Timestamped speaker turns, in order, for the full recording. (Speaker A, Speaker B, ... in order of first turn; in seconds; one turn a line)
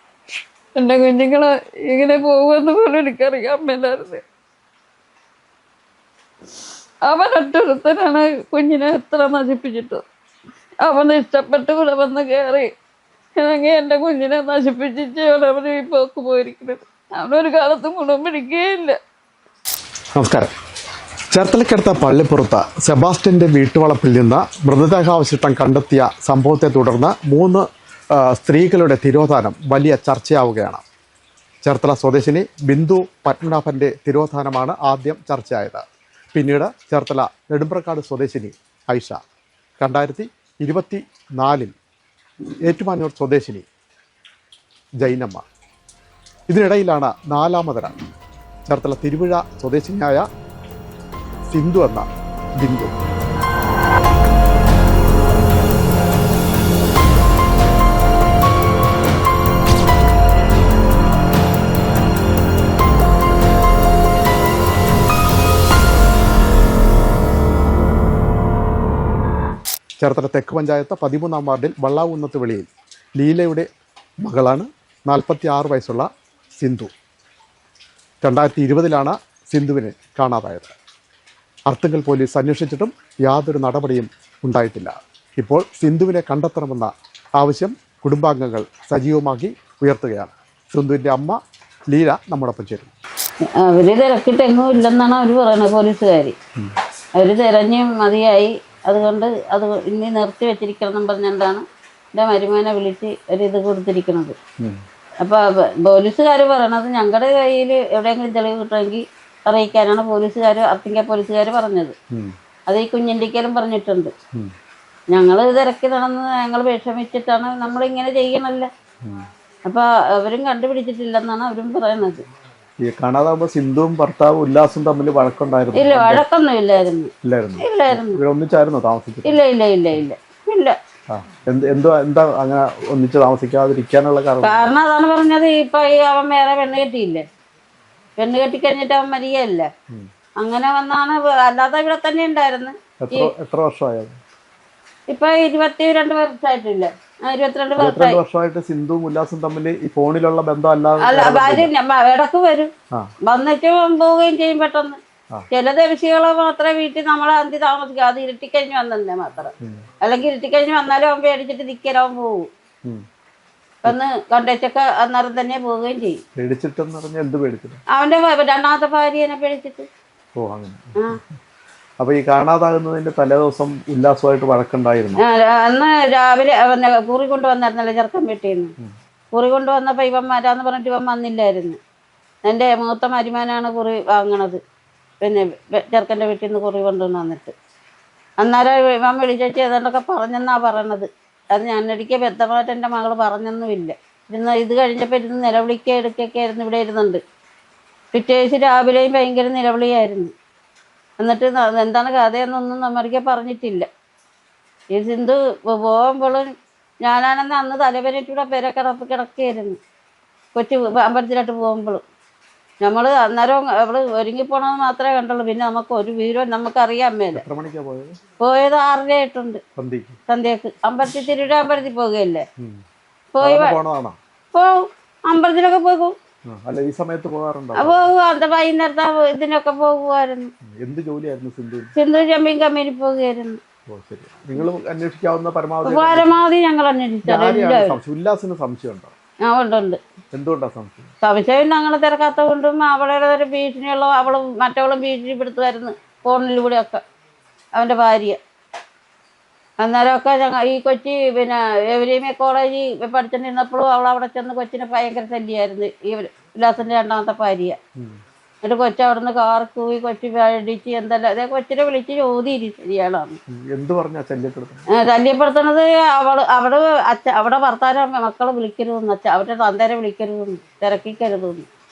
Speaker A: 0.8-4.2
Speaker A: 7.0-10.0
Speaker A: 10.8-12.7
Speaker A: 13.4-19.0
Speaker B: 20.1-20.5
Speaker B: 21.3-30.8
Speaker B: 31.6-39.2
Speaker B: 39.8-41.7
Speaker B: 42.6-43.6
Speaker B: 45.0-45.4
Speaker B: 46.5-48.0
Speaker B: 48.7-50.2
Speaker B: 51.5-52.1
Speaker B: 52.6-52.9
Speaker B: 70.0-73.7
Speaker B: 74.2-76.9
Speaker B: 78.2-80.7
Speaker B: 81.7-91.4
Speaker B: 91.9-92.9
Speaker A: 93.6-96.3
Speaker A: 97.2-104.3
Speaker A: 105.2-111.9
Speaker A: 112.7-114.1
Speaker A: 115.1-118.7
Speaker A: 119.7-122.2
Speaker B: 122.8-126.2
Speaker A: 125.7-128.2
Speaker B: 127.2-129.4
Speaker A: 129.2-130.8
Speaker B: 131.1-134.7
Speaker A: 134.4-137.2
Speaker A: 138.2-139.7
Speaker A: 140.4-143.3
Speaker B: 143.0-144.2
Speaker A: 145.1-148.2
Speaker B: 147.8-151.7
Speaker A: 151.0-152.7
Speaker A: 153.2-155.0
Speaker A: 155.5-162.5
Speaker A: 163.8-166.2
Speaker B: 166.3-167.8
Speaker A: 167.9-169.9
Speaker B: 170.3-171.2
Speaker B: 172.0-175.2
Speaker A: 175.2-178.7
Speaker A: 179.3-181.8
Speaker A: 182.4-184.6
Speaker A: 185.2-187.5
Speaker A: 188.4-197.2
Speaker A: 198.1-200.3
Speaker A: 201.2-203.9
Speaker A: 204.9-206.5
Speaker A: 207.0-209.8
Speaker A: 210.5-212.0
Speaker A: 212.8-217.4
Speaker B: 217.3-218.1
Speaker A: 218.4-219.6
Speaker B: 219.8-220.2
Speaker A: 220.3-222.4
Speaker A: 223.3-223.8
Speaker B: 223.4-224.2
Speaker A: 224.5-226.1
Speaker B: 226.5-228.0
Speaker A: 227.8-230.5
Speaker B: 230.8-231.9
Speaker A: 231.9-233.6
Speaker B: 233.9-236.3
Speaker A: 235.8-238.0
Speaker B: 237.2-239.1
Speaker A: 239.4-240.0
Speaker B: 240.3-241.1
Speaker A: 241.2-247.0
Speaker A: 247.8-248.4
Speaker A: 249.8-257.8
Speaker A: 258.6-263.4
Speaker B: 263.5-264.8
Speaker A: 264.9-271.7